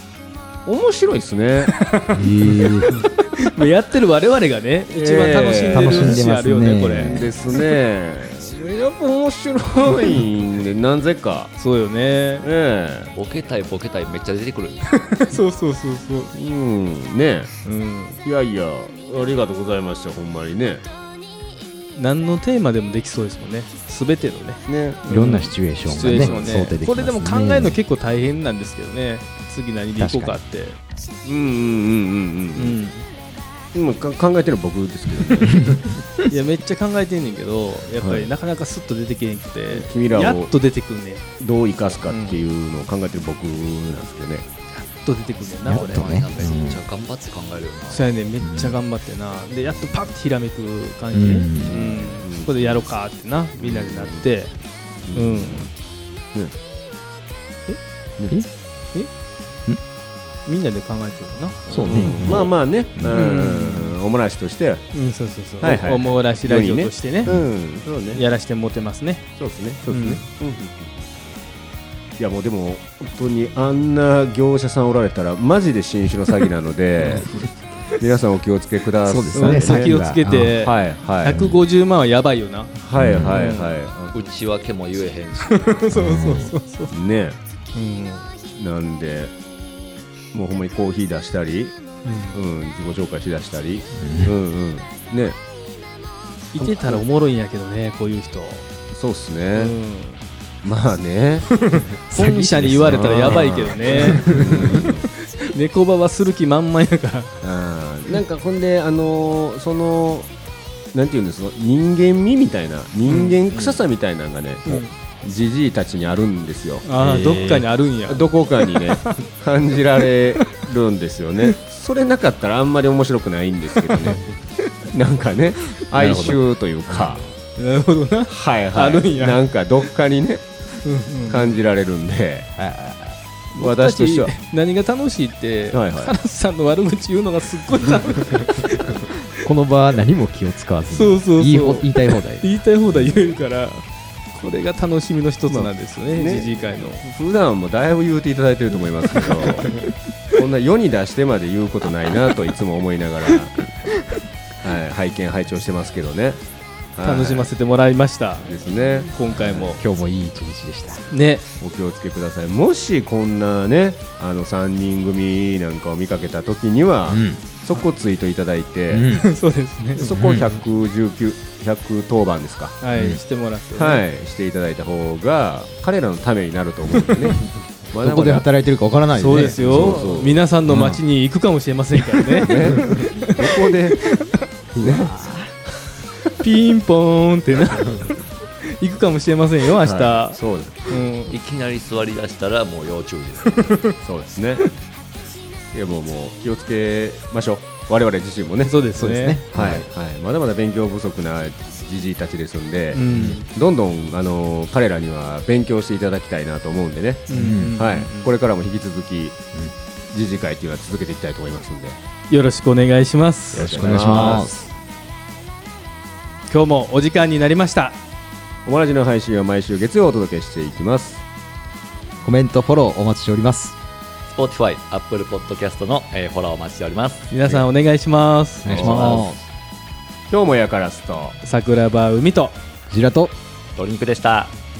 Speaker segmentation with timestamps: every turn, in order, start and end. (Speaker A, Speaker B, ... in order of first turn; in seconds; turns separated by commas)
Speaker A: 0.7-1.8, Speaker B: 1.7-7.2, Speaker C: 2.1-2.9, Speaker A: 4.9-6.2, Speaker C: 5.7-7.3, Speaker A: 7.1-11.5, Speaker B: 11.6-12.5, Speaker A: 12.4-13.1, Speaker D: 13.1-14.9, Speaker B: 14.8-16.3, Speaker A: 16.3-17.5, Speaker B: 17.6-18.2, Speaker A: 18.2-20.8, Speaker B: 21.9-30.8, Speaker A: 24.7-25.0, Speaker C: 25.1-27.8, Speaker C: 30.0-30.3, Speaker A: 31.2-32.8, Speaker B: 32.5-33.1, Speaker A: 33.7-35.8, Speaker B: 36.3-41.2, Speaker A: 38.0-38.3, Speaker A: 39.7-40.5, Speaker A: 41.4-44.5, Speaker B: 42.0-42.4, Speaker B: 44.7-46.5, Speaker D: 45.6-48.1, Speaker C: 45.7-46.8, Speaker B: 47.9-54.5, Speaker C: 48.4-48.8, Speaker C: 51.1-51.8, Speaker A: 51.6-52.9, Speaker A: 53.5-54.3, Speaker A: 55.1-55.7, Speaker B: 55.1-55.7, Speaker B: 60.5-62.3, Speaker C: 61.7-63.2, Speaker A: 61.8-64.9, Speaker B: 63.1-64.0, Speaker B: 64.9-67.4, Speaker A: 65.6-68.2, Speaker B: 68.1-69.3, Speaker A: 69.3-71.0, Speaker B: 69.9-70.2, Speaker A: 72.2-77.3, Speaker A: 78.0-81.5, Speaker C: 79.0-80.7, Speaker B: 79.3-83.8, Speaker C: 81.3-81.5, Speaker A: 82.8-84.2, Speaker C: 82.9-83.4, Speaker D: 84.1-85.8, Speaker B: 85.4-86.9, Speaker C: 85.9-86.5, Speaker A: 86.9-87.4, Speaker B: 87.7-88.3, Speaker A: 88.5-89.3, Speaker A: 90.3-91.8, Speaker B: 92.0-92.4, Speaker A: 92.3-95.4, Speaker C: 94.0-94.3, Speaker B: 96.5-98.7, Speaker A: 96.6-97.0, Speaker A: 98.9-99.7, Speaker B: 99.5-100.2, Speaker A: 100.6-101.5, Speaker B: 101.5-107.4, Speaker C: 102.1-104.8, Speaker A: 102.8-105.0, Speaker A: 107.4-110.3, Speaker A: 110.9-116.9, Speaker B: 113.1-113.4, Speaker B: 116.8-119.2, Speaker C: 117.0-117.7, Speaker A: 118.0-124.3, Speaker B: 120.3-120.6, Speaker B: 123.9-124.3, Speaker A: 124.9-127.2, Speaker B: 125.8-126.2, Speaker C: 126.0-126.3, Speaker B: 127.5-129.5, Speaker A: 128.3-130.6, Speaker B: 130.8-131.5, Speaker A: 131.3-132.5, Speaker C: 132.6-133.2, Speaker A: 133.5-134.3, Speaker B: 133.6-139.5, Speaker A: 135.7-136.1, Speaker C: 139.4-143.1, Speaker B: 140.9-147.0, Speaker A: 145.5-153.6, Speaker B: 149.2-149.9, Speaker A: 154.6-156.4, Speaker A: 156.9-157.5, Speaker B: 157.0-159.8, Speaker A: 158.4-159.7, Speaker C: 159.3-161.1, Speaker B: 161.1-161.4, Speaker A: 161.6-169.1, Speaker C: 167.1-167.4, Speaker C: 168.9-169.2, Speaker B: 169.1-170.3, Speaker A: 169.9-172.8, Speaker C: 170.0-170.4, Speaker B: 172.8-174.0, Speaker C: 172.9-173.2, Speaker A: 173.7-178.5, Speaker C: 178.0-180.0, Speaker B: 179.1-184.4, Speaker A: 179.3-180.4, Speaker C: 180.7-181.0, Speaker A: 182.4-184.0, Speaker C: 184.7-185.5, Speaker B: 186.4-191.3, Speaker A: 189.8-191.0, Speaker D: 191.3-193.7, Speaker B: 193.6-193.9, Speaker A: 194.0-194.7, Speaker A: 195.7-209.4, Speaker B: 198.6-199.8, Speaker C: 199.0-199.8, Speaker B: 202.9-203.5, Speaker C: 203.1-203.4, Speaker B: 207.3-208.3, Speaker C: 207.3-207.8, Speaker A: 210.1-212.0, Speaker B: 212.3-214.4, Speaker A: 213.5-214.5, Speaker C: 213.5-214.7, Speaker B: 216.5-218.0, Speaker A: 218.7-221.2, Speaker C: 222.2-223.8, Speaker D: 224.3-227.6, Speaker B: 227.3-229.2, Speaker C: 228.6-229.4, Speaker D: 228.7-229.3, Speaker A: 228.8-229.1, Speaker A: 230.3-231.4, Speaker B: 231.4-232.6, Speaker C: 232.9-233.3, Speaker D: 233.8-234.5